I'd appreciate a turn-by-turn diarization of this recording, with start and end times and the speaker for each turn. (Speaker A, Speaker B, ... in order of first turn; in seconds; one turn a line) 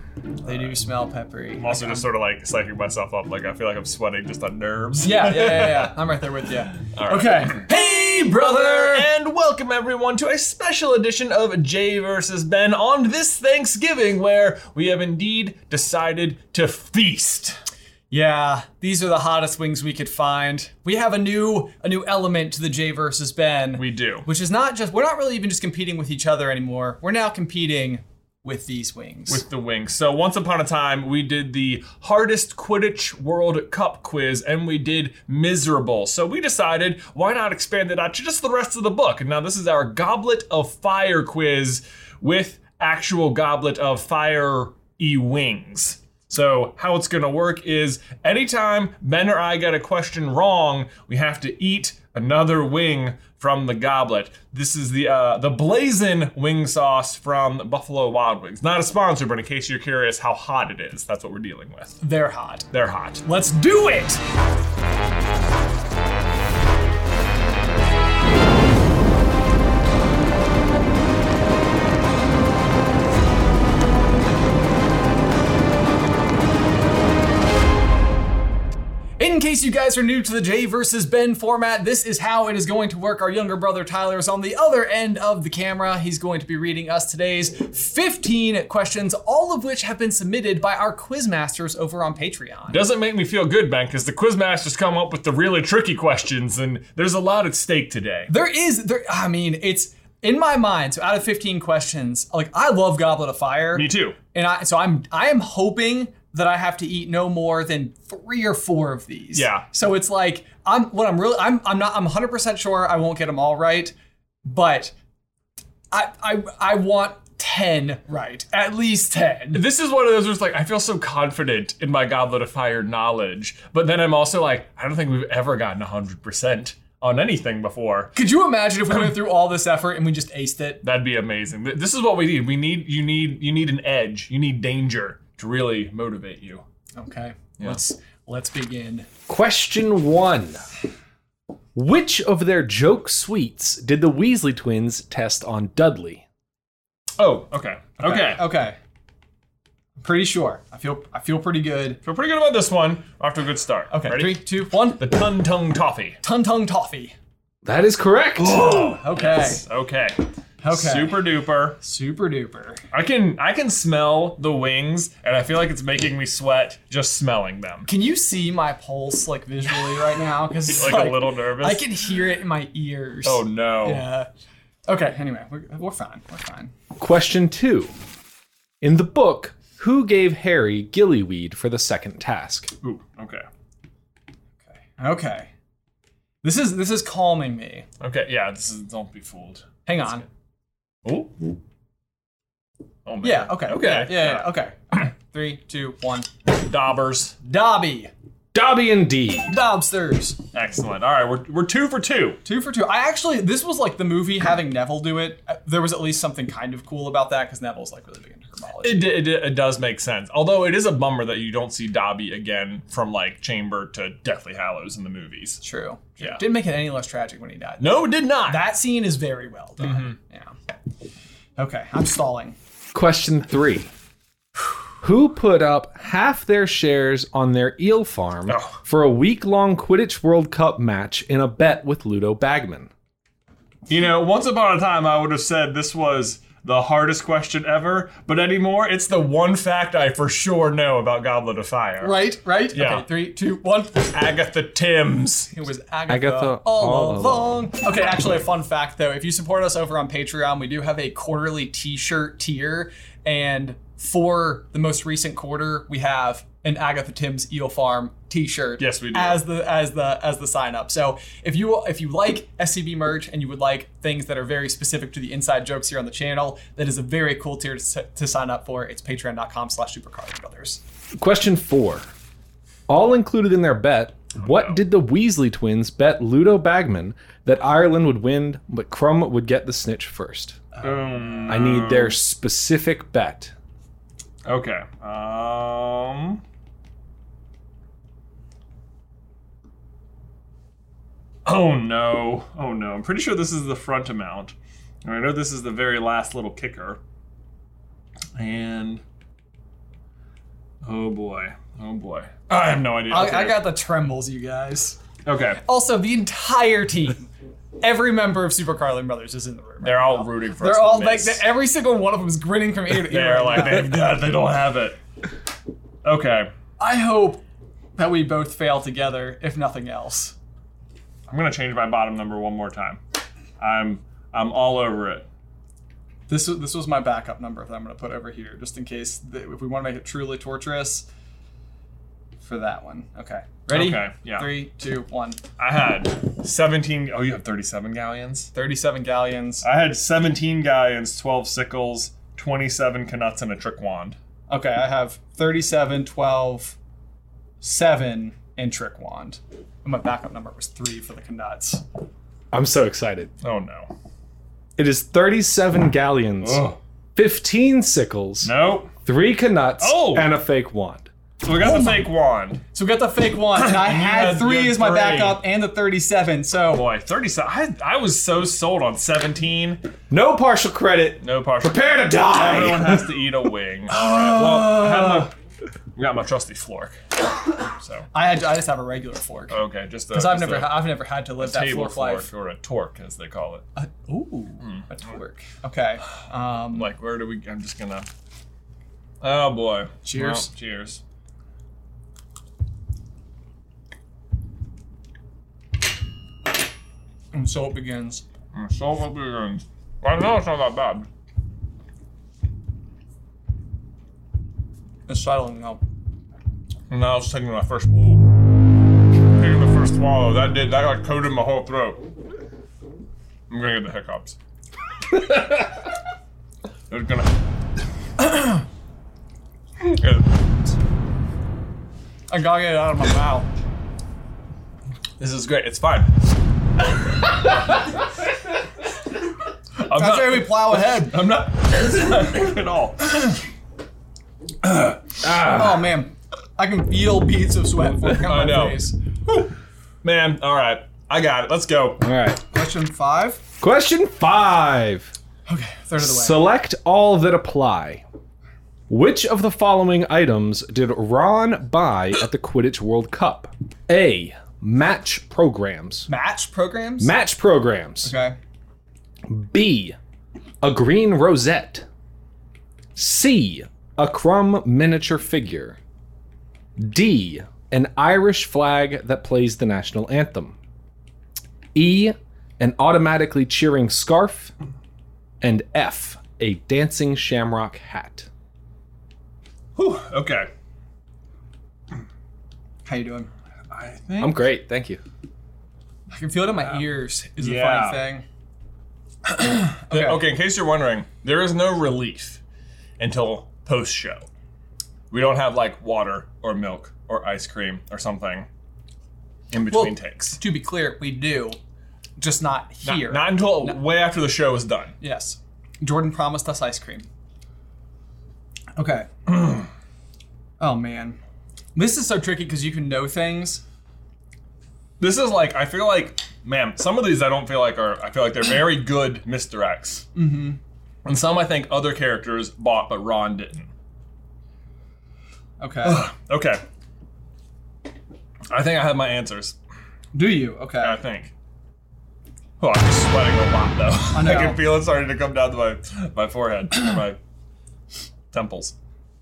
Speaker A: 0.4-0.8
Speaker B: 0.4-2.0
Speaker A: 1.6-6.0
Speaker B: 5.0-9.1
Speaker A: 6.8-17.6
Speaker B: 18.1-29.4
Speaker A: 23.8-24.3
Speaker A: 29.3-62.0
Speaker B: 62.0-62.7
Speaker A: 62.7-63.2
Speaker B: 63.2-64.2
Speaker B: 79.2-92.8
Speaker A: 92.7-98.3
Speaker B: 98.3-113.9
Speaker A: 103.7-104.2
Speaker A: 109.3-109.7
Speaker B: 114.5-115.0
Speaker B: 115.9-119.6
Speaker A: 119.5-128.2
Speaker B: 128.2-130.8
Speaker A: 130.8-136.6
Speaker B: 136.9-139.1
Speaker C: 139.3-140.6
Speaker C: 141.8-146.2
Speaker A: 147.2-148.5
Speaker B: 148.0-148.8
Speaker B: 150.0-152.0
Speaker A: 152.0-156.2
Speaker B: 153.9-155.1
Speaker B: 156.2-157.2
Speaker C: 157.6-158.7
Speaker A: 158.4-161.8
Speaker B: 158.5-159.6
Speaker B: 160.6-161.3
Speaker B: 161.8-162.8
Speaker A: 162.9-167.9
Speaker B: 167.9-174.3
Speaker A: 170.7-171.9
Speaker A: 173.2-174.1
Speaker B: 174.9-176.7
Speaker C: 177.0-177.9
Speaker C: 178.8-182.7
Speaker A: 182.8-183.4
Speaker B: 184.8-185.5
Speaker B: 186.4-187.9
Speaker A: 188.0-189.9
Speaker B: 189.9-190.2
Speaker A: 191.1-191.6
Speaker A: 193.1-194.5
Speaker B: 193.2-196.3
Speaker A: 196.5-197.4
Speaker B: 197.4-198.1
Speaker C: 198.5-199.6
Speaker B: 199.5-200.4
Speaker A: 200.5-202.4
Speaker B: 202.4-209.1
Speaker A: 208.8-215.6
Speaker B: 215.6-220.5
Speaker A: 216.2-216.4
Speaker A: 217.8-218.7
Speaker A: 219.8-220.2
Speaker B: 221.6-222.6
Speaker C: 222.9-223.9
Speaker C: 225.0-232.9
Speaker A: 228.5-228.8
Speaker A: 233.9-242.2
Speaker B: 242.0-244.1
Speaker A: 242.7-243.1
Speaker A: 244.1-245.6
Speaker B: 245.5-270.8
Speaker C: 246.1-247.7
Speaker A: 258.8-259.4
Speaker C: 271.1-272.1
Speaker C: 272.9-280.6
Speaker A: 274.4-274.8
Speaker B: 280.7-281.5
Speaker A: 280.8-282.2
Speaker C: 281.5-283.5
Speaker A: 284.4-286.4
Speaker A: 291.4-297.0
Speaker A: 298.4-299.0
Speaker A: 300.8-303.8
Speaker B: 303.1-305.0
Speaker A: 305.2-305.6
Speaker B: 305.6-307.3
Speaker B: 307.8-314.1
Speaker A: 309.8-311.4
Speaker A: 312.9-315.0
Speaker A: 316.0-316.5
Speaker B: 316.8-317.4
Speaker B: 318.0-320.4
Speaker A: 321.3-323.0
Speaker A: 323.6-325.3
Speaker B: 326.3-331.1
Speaker B: 332.4-335.4
Speaker A: 333.7-334.6
Speaker A: 335.6-338.5
Speaker B: 338.5-339.6
Speaker A: 339.6-344.2
Speaker B: 344.5-346.8
Speaker B: 347.6-351.8
Speaker C: 352.5-353.3
Speaker A: 353.4-353.9
Speaker C: 354.8-361.1
Speaker A: 356.4-356.8
Speaker A: 358.4-358.9
Speaker A: 359.8-360.3
Speaker A: 361.4-362.6
Speaker B: 361.6-362.1
Speaker B: 362.7-366.9
Speaker A: 363.5-365.4
Speaker A: 366.7-369.8
Speaker C: 370.1-373.3
Speaker A: 371.2-375.3
Speaker B: 373.9-375.3
Speaker A: 376.0-377.0
Speaker A: 377.7-378.1
Speaker B: 378.1-379.6
Speaker A: 379.5-383.6
Speaker B: 380.1-382.3
Speaker B: 383.8-386.9
Speaker A: 384.6-384.9
Speaker A: 386.7-388.1
Speaker A: 389.2-391.0
Speaker B: 390.0-390.5
Speaker B: 397.3-398.2
Speaker A: 398.5-401.1
Speaker B: 405.1-405.8
Speaker A: 406.9-408.3
Speaker A: 409.3-412.0
Speaker A: 413.5-414.4
Speaker A: 415.1-415.7
Speaker A: 416.9-417.3
Speaker A: 419.8-420.3
Speaker B: 422.3-423.5
Speaker A: 425.2-426.1
Speaker A: 429.8-433.4
Speaker B: 429.9-431.2
Speaker A: 434.6-435.0
Speaker C: 435.2-435.9
Speaker B: 435.5-439.0
Speaker A: 438.2-442.1
Speaker C: 442.0-442.4
Speaker B: 442.5-443.4
Speaker C: 443.6-445.1
Speaker B: 445.5-446.5
Speaker C: 446.0-448.0
Speaker C: 448.9-456.1
Speaker B: 456.1-457.1
Speaker C: 457.0-458.1
Speaker B: 458.0-458.4
Speaker C: 459.3-460.0
Speaker C: 460.6-461.9
Speaker C: 463.0-465.8
Speaker C: 466.8-470.6
Speaker C: 471.7-474.5
Speaker C: 475.4-478.3
Speaker A: 479.8-480.5
Speaker B: 482.9-483.3
Speaker A: 483.7-484.4
Speaker C: 484.2-485.0
Speaker B: 486.1-488.2
Speaker A: 486.6-488.1
Speaker B: 489.4-490.2
Speaker A: 489.9-492.4
Speaker A: 493.0-494.3
Speaker A: 495.1-498.5
Speaker A: 499.5-500.4
Speaker B: 499.7-501.6
Speaker B: 502.2-503.8
Speaker A: 502.8-504.9
Speaker B: 505.0-507.1
Speaker B: 508.8-509.4
Speaker B: 510.6-511.2
Speaker B: 511.8-513.6
Speaker A: 515.0-520.1
Speaker B: 520.1-520.6
Speaker A: 521.0-523.7
Speaker B: 525.6-526.0
Speaker A: 525.8-526.6
Speaker A: 528.5-529.6
Speaker B: 530.1-531.0
Speaker A: 530.8-531.3
Speaker A: 532.6-537.2
Speaker B: 534.1-534.6
Speaker A: 538.3-538.8